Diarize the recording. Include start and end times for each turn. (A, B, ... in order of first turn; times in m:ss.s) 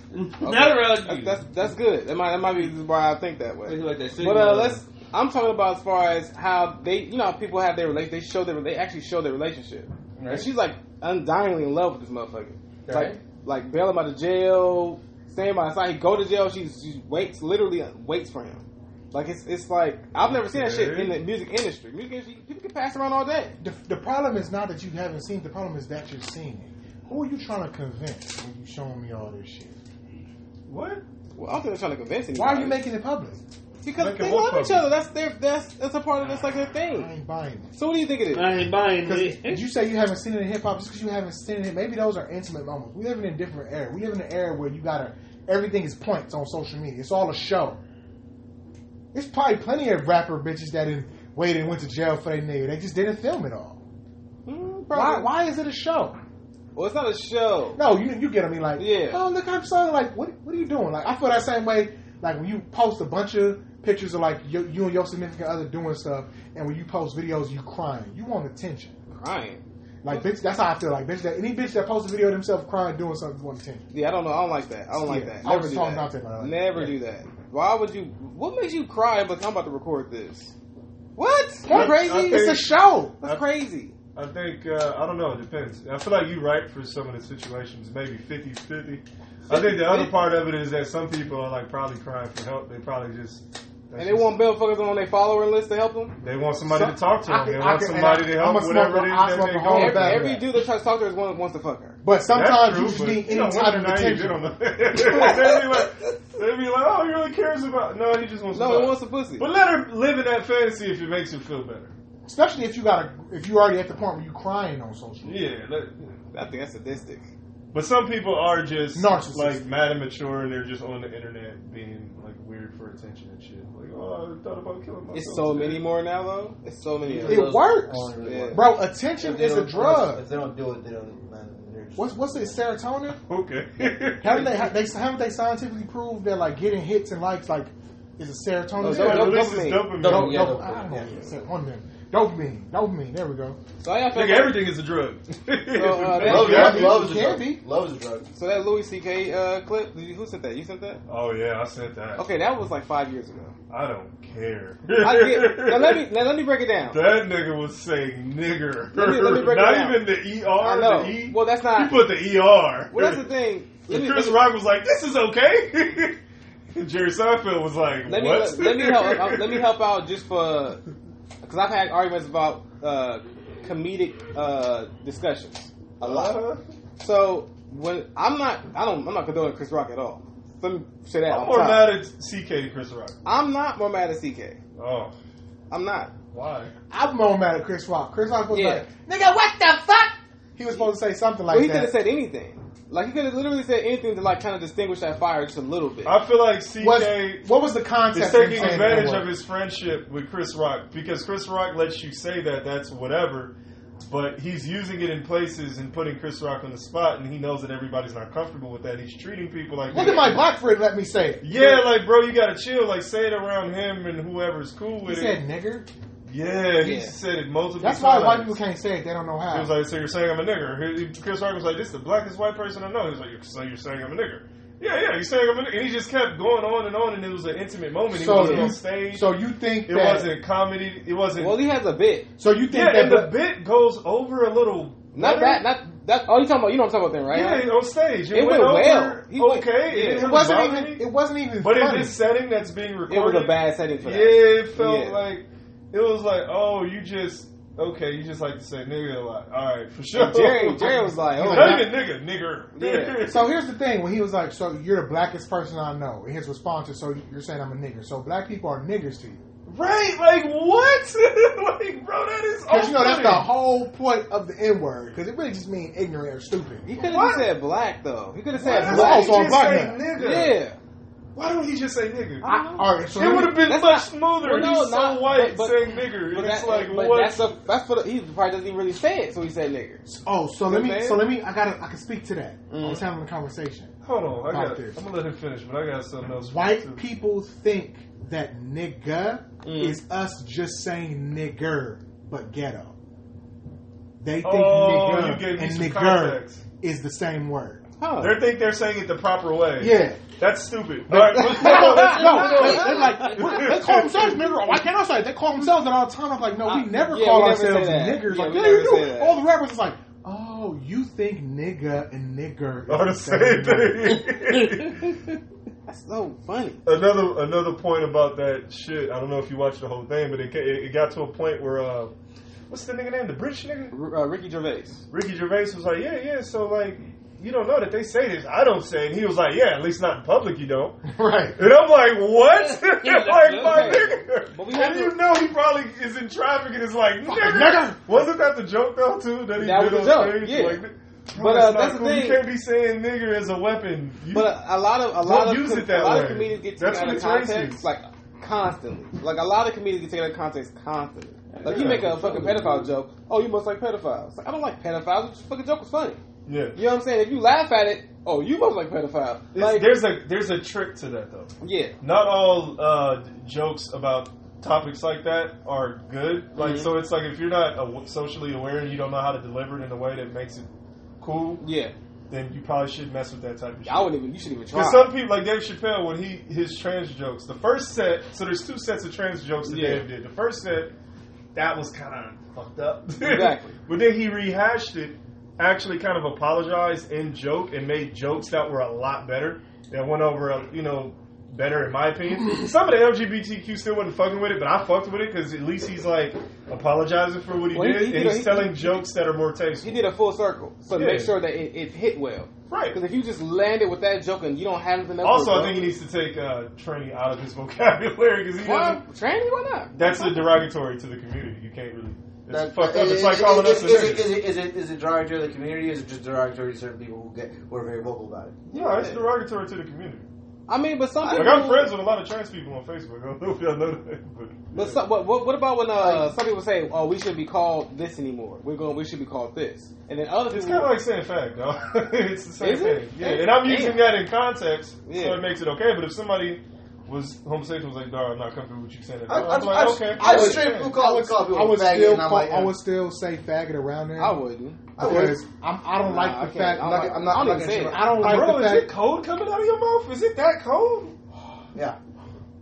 0:00.1-0:01.4 A
0:00.4-0:23.5 B
0:03.6-0:04.8 A
0:10.2-0:10.5 C
0:12.8-0:13.2 C
0:20.2-0:21.2 D
0:23.6-0:29.7 E
0:30.7-0:31.0 D
0:31.4-0:32.8 B
0:32.3-0:33.4 E
0:33.8-0:37.1 B
0:34.0-0:34.9 D
0:36.9-0:37.7 E
0:37.7-0:38.6 B
0:38.3-0:39.7 A
0:39.0-0:47.8 E
0:49.1-0:53.8 E
0:54.4-0:55.3 B
0:54.9-0:56.2 E
0:56.7-0:57.8 B
0:57.8-1:08.9 E
0:58.8-0:59.2 B
1:09.1-1:10.3 B
1:10.0-1:13.8 E
1:13.9-1:20.5 B
1:14.9-1:16.8 E
1:21.2-1:22.5 B
1:21.6-1:23.2 E
1:21.7-1:23.4 D
1:23.2-1:23.9 B
1:24.1-1:34.4 D
1:29.5-1:30.1 B
1:34.0-1:36.2 B
1:36.2-1:40.3 D
1:36.6-1:40.5 E
1:39.7-1:42.0 B
1:42.0-1:44.4 E
1:42.3-1:51.9 D
1:45.0-1:46.1 B
1:48.5-1:49.5 B
1:52.2-1:55.4 E
1:55.2-1:56.1 D
1:56.3-1:57.3 B
1:57.7-2:05.8 D
1:58.9-1:59.7 E
2:05.1-2:07.6 B
2:07.0-2:12.3 C
2:07.2-2:10.2 E
2:08.2-2:08.7 B
2:12.0-2:13.2 E
2:13.2-2:14.6 D
2:14.2-2:23.6 E
2:18.8-2:20.0 B
2:18.8-2:20.5 D
2:20.0-2:21.3 C
2:23.8-2:24.7 B
2:24.1-2:27.0 D
2:25.7-2:26.8 B
2:26.2-2:27.6 E
2:26.2-2:28.3 C
2:28.3-2:31.0 B
2:31.1-2:32.2 D
2:32.2-2:33.5 B
2:33.7-2:36.0 D
2:35.0-2:37.0 B
2:36.9-2:43.3 D
2:38.9-2:40.1 B
2:40.6-2:42.0 B
2:42.9-2:44.4 B
2:43.9-2:46.2 D
2:46.7-2:49.6 D
2:48.1-2:50.8 B
2:51.4-2:56.4 B
2:56.0-2:56.6 D
2:57.0-3:02.0 B
3:01.3-3:03.2 D
3:03.2-3:04.6 B
3:04.8-3:05.1 D
3:05.7-3:06.1 B
3:06.3-3:06.7 D
3:06.9-3:11.9 E
3:08.5-3:08.8 B
3:11.5-3:16.2 B
3:16.0-3:17.5 D
3:16.8-3:19.3 E
3:18.1-3:23.5 D
3:24.0-3:30.4 D
3:29.9-3:31.8 E
3:29.9-3:30.3 B
3:31.4-3:35.4 D
3:35.0-3:35.9 E
3:36.3-3:38.6 D
3:36.8-3:37.1 B
3:37.8-3:39.7 E
3:39.5-3:51.6 D
3:48.1-3:50.3 E
3:48.3-3:48.7 B
3:51.4-3:52.3 B
3:52.4-3:53.4 E
3:52.7-3:55.6 D
3:55.1-3:57.7 B
3:57.3-4:01.1 D
3:58.3-4:00.3 B
4:00.2-4:02.2 E
4:01.6-4:13.6 D
4:03.1-4:05.2 B
4:10.1-4:12.0 B
4:11.2-4:11.9 E
4:12.7-4:13.2 B
4:13.2-4:19.4 E
4:19.7-4:23.5 D
4:22.7-4:26.9 E
4:26.9-4:29.4 B
4:27.0-4:27.5 D
4:28.6-4:30.6 D
4:28.6-4:30.0 E
4:30.2-4:30.8 B
4:31.3-4:32.4 D
4:32.4-4:32.9 B
4:32.4-4:33.7 E
4:33.1-4:37.5 D
4:33.6-4:40.0 B
4:40.0-4:43.9 E
4:40.7-4:41.3 B
4:42.7-4:43.0 B
4:44.0-4:47.0 D
4:44.4-4:45.0 E
4:46.5-4:52.9 E
4:49.6-4:50.0 B
4:54.2-4:57.8 E
4:54.4-4:56.6 D
4:58.0-4:58.4 B
4:58.2-5:04.4 D
4:59.8-5:00.2 E
5:01.1-5:14.2 E
5:01.3-5:03.6 B
5:06.6-5:09.4 B
5:12.9-5:15.1 D
5:15.9-5:16.8 B
5:16.8-5:22.1 D
5:22.7-5:23.9 D
5:23.9-5:25.0 B
5:25.1-5:44.5 D
5:31.0-5:31.7 E
5:32.5-5:34.0 A
5:33.4-5:35.2 B
5:37.3-5:38.0 E
5:39.6-5:40.8 B
5:41.3-5:42.4 B
5:44.3-5:56.2 B
5:45.2-5:47.8 D
5:51.6-5:52.9 D
5:56.4-5:56.8 D
5:56.7-6:00.0 B
5:59.5-6:10.7 D
6:01.6-6:01.9 B
6:06.5-6:06.9 B
6:11.2-6:11.6 D
6:11.6-6:11.9 B
6:12.3-6:14.1 D
6:13.8-6:15.1 B
6:14.7-6:20.9 D
6:19.6-6:20.1 B
6:21.5-6:40.0 D
6:23.2-6:23.7 B
6:37.7-6:39.0 B
6:39.8-6:45.9 B
6:40.9-6:41.3 D
6:42.7-6:43.0 D
6:45.2-6:49.0 D
6:48.6-6:50.4 B
6:49.9-6:54.4 D
6:52.5-6:58.6 C
6:58.7-6:59.2 B
6:58.7-7:00.2 D
7:00.7-7:01.9 B
7:01.2-7:05.0 D
7:04.7-7:10.9 B
7:06.0-7:06.3 C
7:10.5-7:21.0 D
7:12.6-7:14.2 B
7:15.0-7:15.4 B
7:19.3-7:22.8 C
7:20.2-7:24.4 E
7:24.2-7:24.9 B
7:25.0-7:25.4 C
7:25.0-7:28.9 E
7:26.0-7:28.0 B
7:26.8-7:28.2 C
7:28.2-7:31.1 D